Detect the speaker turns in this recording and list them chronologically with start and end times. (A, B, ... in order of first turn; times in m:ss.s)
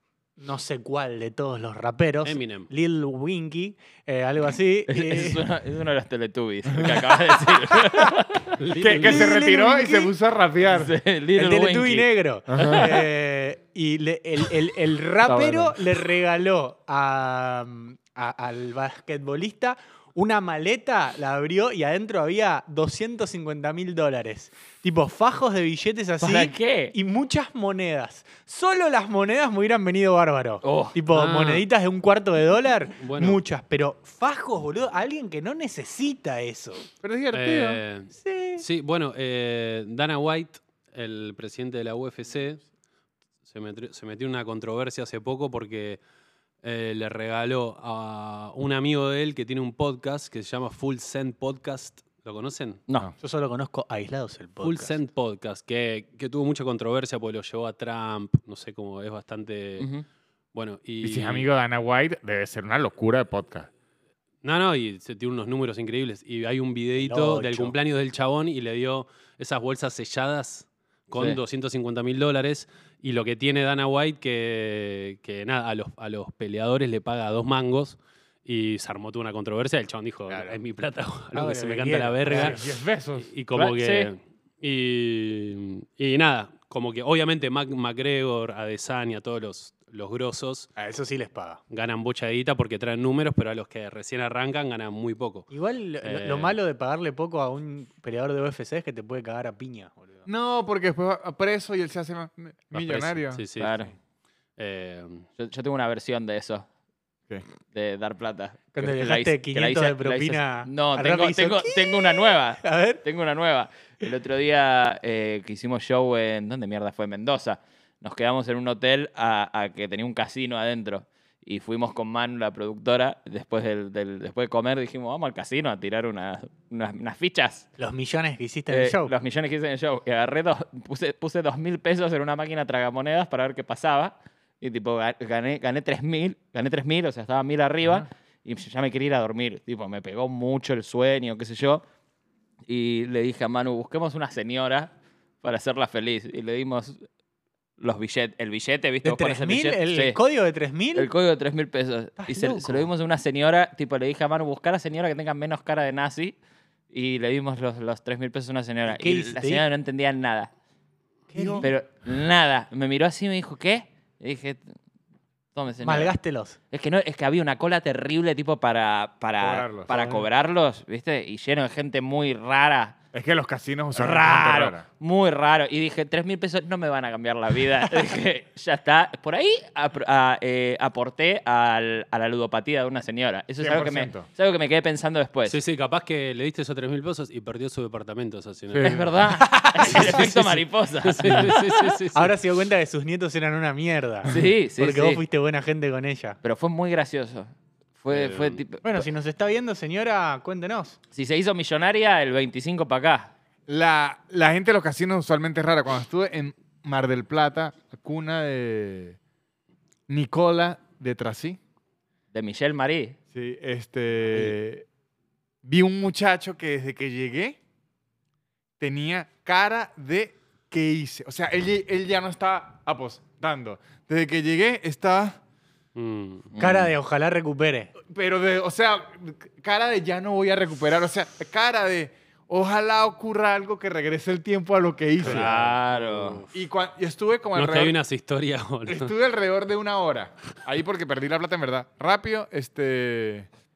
0:00.4-0:05.4 A
0:02.2-0:02.7 B
0:04.9-0:08.5 C
0:06.7-0:07.0 D
0:08.6-0:09.3 B
0:08.8-0:11.0 D
0:08.9-0:10.1 A
0:10.7-0:13.0 C
0:11.4-0:36.9 A
0:12.5-0:12.9 D
0:15.2-0:15.8 D
0:26.2-0:26.9 C
0:30.6-0:31.0 C
0:31.1-0:31.6 B
0:33.0-0:33.4 B
0:37.0-0:37.8 D
0:37.3-0:42.6 B
0:38.2-0:38.6 A
0:43.5-0:46.0 B
0:46.6-0:52.8 B
0:53.2-0:55.0 A
0:54.6-0:59.9 B
0:59.8-1:00.0 C
1:00.5-1:01.5 B
1:01.0-1:03.7 D
1:04.4-1:22.6 B
1:07.0-1:07.7 A
1:20.3-1:20.6 A
1:21.3-1:22.6 A
1:22.3-1:23.3 D
1:23.2-1:30.7 B
1:23.5-1:24.1 C
1:30.8-1:31.6 A
1:31.7-1:35.5 B
1:35.5-1:40.2 A
1:36.0-1:36.6 B
1:40.3-1:43.4 D
1:42.7-1:43.8 B
1:43.6-1:43.9 C
1:44.6-1:45.3 B
1:45.4-1:46.6 C
1:47.7-2:07.7 C
1:48.7-1:53.0 A
2:07.8-2:09.1 A
2:08.7-2:21.8 C
2:22.7-2:27.0 C
2:27.8-2:30.2 C
2:29.0-2:31.1 A
2:30.9-2:36.4 C
2:32.2-2:32.9 A
2:36.9-2:40.5 C
2:38.9-2:39.6 A
2:41.3-2:41.7 A
2:41.6-2:44.6 C
2:45.5-2:46.1 C
2:45.8-2:46.6 A
2:46.7-2:53.0 C
2:49.4-2:50.2 D
2:53.1-2:54.8 D
2:53.9-3:05.6 C
3:03.6-3:04.3 D
3:05.4-3:09.1 B
3:08.7-3:09.0 D
3:08.8-3:12.0 C
3:09.4-3:10.2 A
3:09.8-3:12.3 B
3:12.1-3:16.4 A
3:14.3-3:15.2 C
3:16.4-3:19.0 C
3:18.1-3:18.6 B
3:18.8-3:21.0 A
3:21.1-3:23.3 C
3:23.7-3:29.2 D
3:30.1-3:31.6 D
3:32.3-3:33.2 C
3:33.3-3:34.8 D
3:35.6-3:37.6 D
3:38.8-3:45.4 D
3:46.0-3:46.5 B
3:46.5-3:46.9 C
3:46.6-3:47.9 A
3:48.0-3:55.5 D
3:55.2-3:56.4 B
3:55.2-3:56.4 C
3:56.5-3:58.0 D
3:57.5-3:59.1 B
3:58.9-4:03.5 D